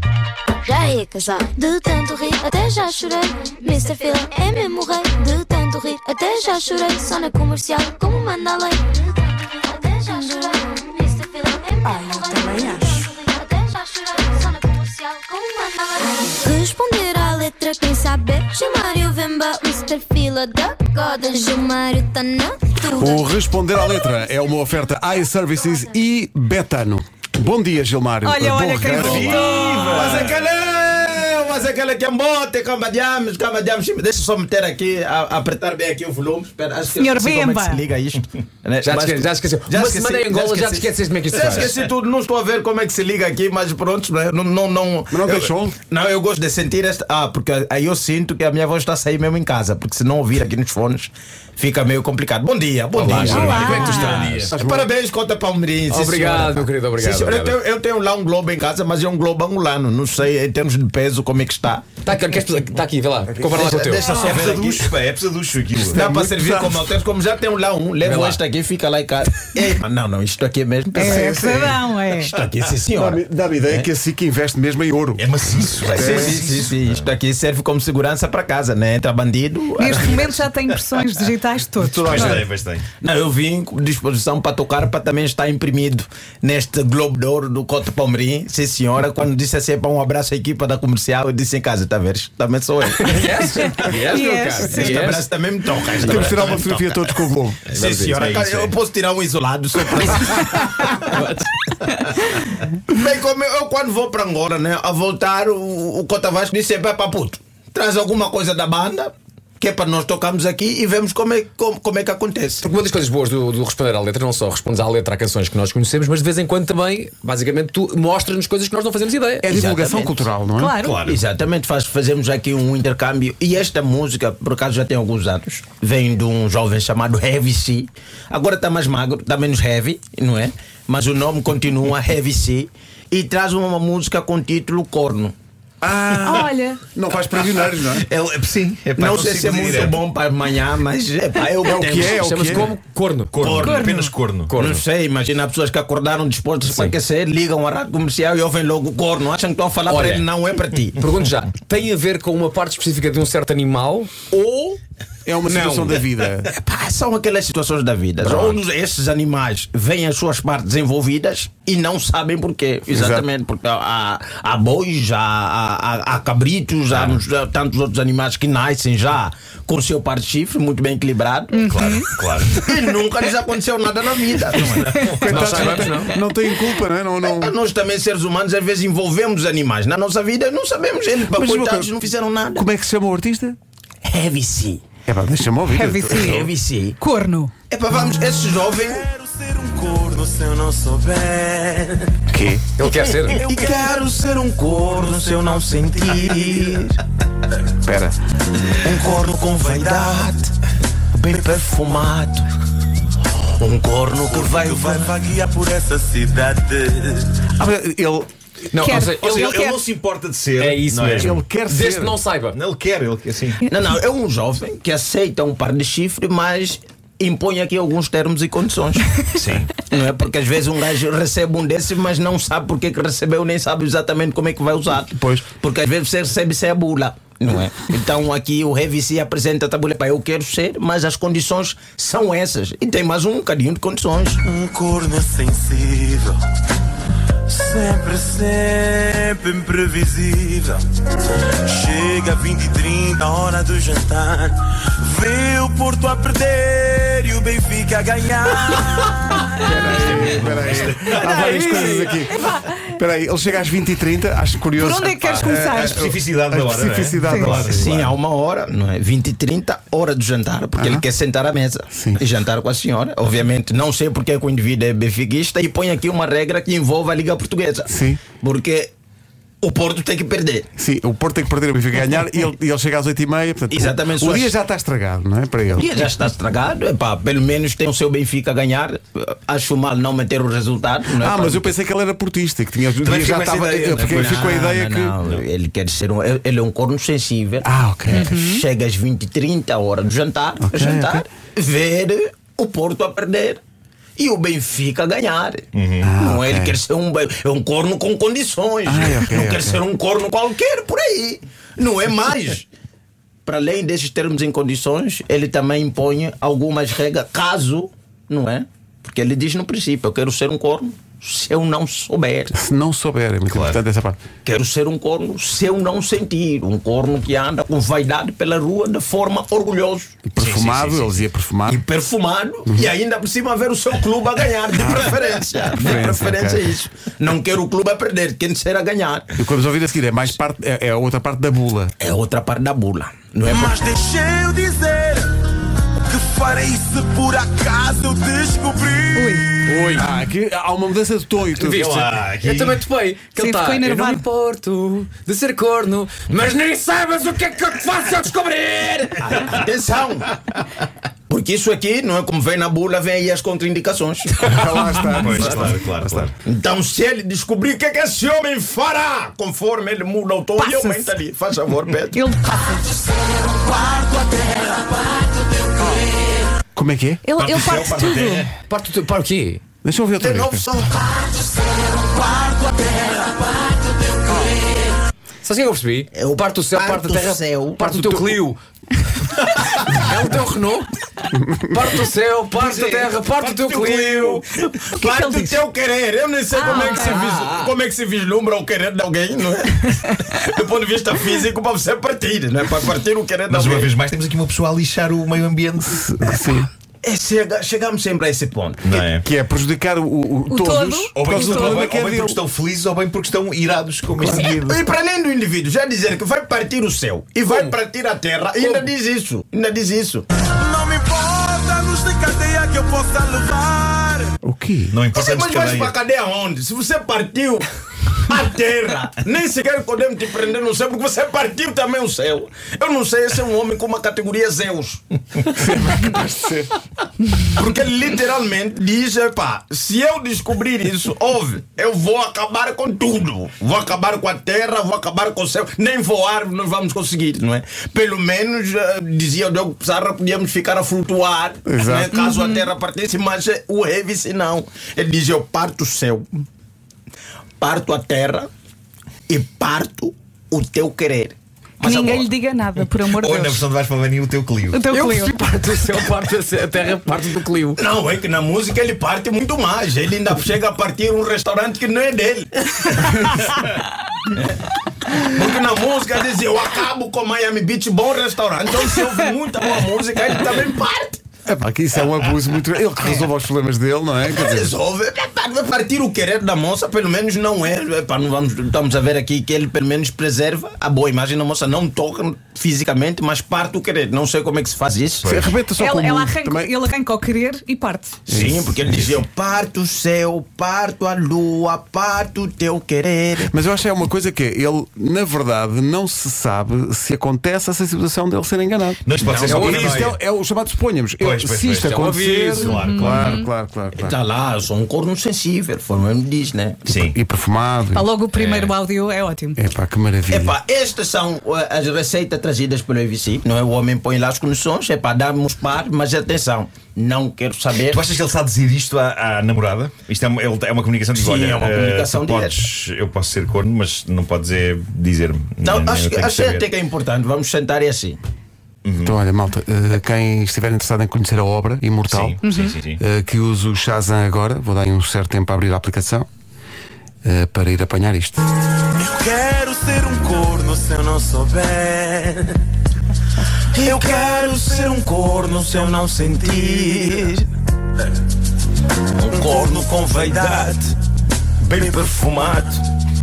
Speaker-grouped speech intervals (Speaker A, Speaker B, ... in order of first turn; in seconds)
Speaker A: 0.7-23.2
Speaker B: 11.9-13.0, 28.2-30.1, 37.0-37.8, 53.2-54.2, 71.0-72.3, 79.8-82.4, 94.0-95.0, 120.6-121.0, 136.3-136.8, 143.6-144.2, 171.5-172.7, 185.7-186.5, 187.0-187.5, 208.8-209.8, 251.1-252.8, 254.8-256.1, 257.2-257.6, 288.2-288.6, 339.1-339.5, 343.4-344.2, 360.6-361.1, 362.1-362.9, 367.2-368.5, 385.0-385.6, 386.5-387.3, 400.5-401.9, 442.2-442.6, 451.8-453.7, 454.7-455.4, 485.8-488.2, 502.6-503.5, 507.9-509.6, 532.4-532.8
Speaker C: 23.0-29.5, 45.1-45.8, 53.1-53.6, 54.5-54.9, 65.8-66.9, 71.0-71.8, 73.0-76.4, 81.8-82.5, 96.0-97.6, 119.4-120.8, 135.8-138.1, 141.6-142.7, 155.2-156.5, 158.3-158.5, 162.9-163.3, 175.0-177.5, 181.3-181.9, 182.5-183.6, 185.1-186.5, 192.3-192.7, 197.8-198.2, 207.6-208.3, 211.2-212.2, 225.1-225.5, 249.5-257.9, 260.8-261.0, 261.9-262.2, 267.9-268.2, 270.8-275.9, 281.2-285.2, 287.6-288.3, 290.6-291.2, 296.0-296.8, 298.9-299.8, 312.5-314.2, 320.3-321.8, 322.7-322.9, 324.8-325.1, 325.7-326.7, 329.4-331.9, 339.7-342.0, 354.4-356.3, 366.8-367.3, 369.8-370.6, 381.3-382.0, 395.9-396.7, 399.2-402.4, 404.2-404.6, 414.4-415.0, 425.6-426.7, 441.7-442.1, 471.5-474.7, 485.2-486.7, 488.3-489.2, 493.5-504.1, 507.1-508.1, 509.6-510.6, 529.0-532.4, 533.0-536.3, 537.2-538.5
Speaker D: 29.1-30.2, 64.1-66.0, 75.2-77.0, 82.1-82.9, 120.8-121.2, 136.1-136.5, 138.1-140.0, 143.3-144.6, 166.9-167.2, 171.7-172.6, 174.6-175.1, 209.0-211.3, 212.5-213.6, 219.3-219.7, 250.1-252.0, 255.7-258.2, 282.9-284.6, 295.7-296.1, 313.5-313.8, 320.4-321.2, 341.8-342.9, 355.0-356.3, 367.4-368.5, 393.5-396.0, 398.8-399.2, 401.1-404.8, 414.9-415.9, 453.0-454.9, 499.1-500.2, 501.2-502.0, 502.5-503.4, 506.9-507.2, 508.3-508.7, 517.8-526.7, 528.9-529.1, 532.0-533.0
Speaker E: 29.8-61.9, 63.4-65.0, 65.9-71.6, 72.2-73.9, 75.8-80.5, 83.0-94.0, 94.6-97.2, 97.7-101.3, 102.8-112.7, 119.5-120.3, 121.0-135.3, 139.0-142.7, 143.5-143.8, 144.6-151.0, 156.5-171.9, 172.6-176.0, 177.2-182.7, 184.1-184.8, 186.1-187.0, 187.7-189.1, 192.8-197.0, 198.7-200.5, 201.2-202.5, 203.2-205.2, 213.7-219.2, 219.8-234.4, 257.5-268.9, 269.6-270.7, 273.7-274.5, 275.7-281.7, 283.8-293.6, 294.2-295.7, 296.2-302.7, 303.5-312.5, 314.4-320.2, 321.7-329.4, 332.0-333.9, 349.2-350.3, 351.3-355.7, 356.4-362.3, 363.6-364.6, 370.2-373.4, 376.1-378.4, 382.6-393.9, 397.0-399.1, 404.4-410.2, 415.1-425.9, 427.5-446.4, 447.6-448.5, 449.3-452.3, 457.8-463.5, 465.1-471.2, 474.2-485.4, 488.3-493.5, 499.3-499.7, 504.0-506.9, 510.3-518.0, 521.1-522.7, 525.6-528.2, 543.7-547.5, 549.2-550.9, 551.6-552.8
Speaker F: 38.8-41.7, 53.0-54.5, 55.9-57.6, 62.0-64.4, 68.0-68.4, 93.0-95.3, 97.7-98.7, 100.8-102.0, 112.6-119.5, 142.0-143.8, 144.4-144.8, 149.9-150.3, 151.0-154.8, 155.5-156.0, 175.3-176.2, 192.8-193.4, 208.7-209.7, 210.6-212.6, 255.2-255.5, 339.7-340.1, 341.5-349.4, 368.7-369.6, 375.4-378.6, 379.3-384.4, 386.7-387.6, 407.5-407.7, 454.9-457.8, 499.3-500.1, 501.8-502.7
Speaker G: 189.0-192.1, 193.3-193.8, 195.0-196.6, 204.5-207.3, 234.4-236.4, 237.5-240.8, 241.7-249.4, 333.5-335.3, 336.1-339.7, 410.4-414.3, 538.9-542.5, 549.4-550.9